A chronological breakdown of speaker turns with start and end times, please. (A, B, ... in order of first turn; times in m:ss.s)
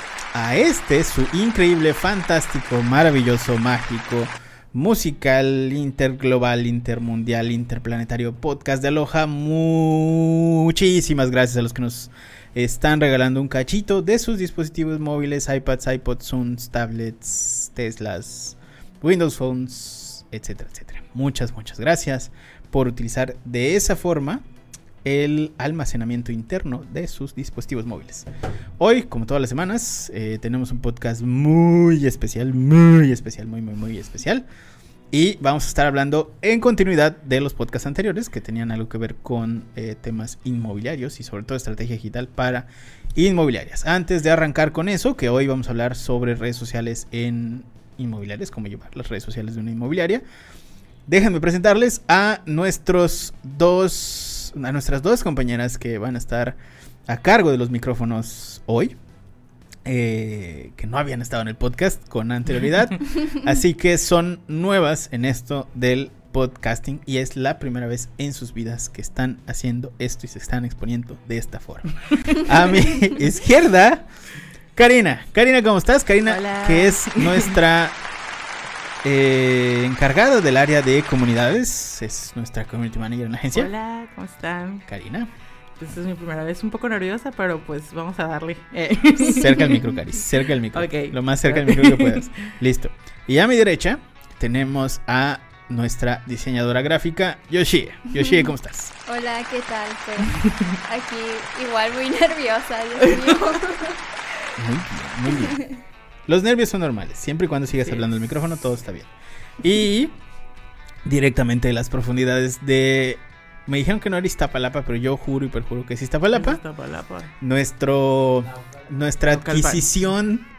0:00.3-0:24.4 A
0:25.0-0:28.3 A
0:28.8-0:34.4 A
0:35.1-0:50.2 A
0:51.1-0:58.9 A
0:59.8-1:14.1 A
1:14.8-1:18.0 A
1:16.2-1:17.6 B
1:19.0-1:23.7 A
1:23.5-1:24.9 B
1:24.9-1:25.3 A
1:25.8-1:29.8 B
1:29.3-1:38.9 A
1:30.7-1:32.3 B
1:39.1-1:44.0 C
1:40.4-1:40.8 B
1:44.6-1:45.6 A
1:45.3-1:45.8 C
1:46.3-1:49.1 A
1:49.6-1:50.2 A
1:51.0-1:56.6 A
1:56.3-1:57.3 B
1:57.4-2:00.5 A
1:59.2-2:00.0 B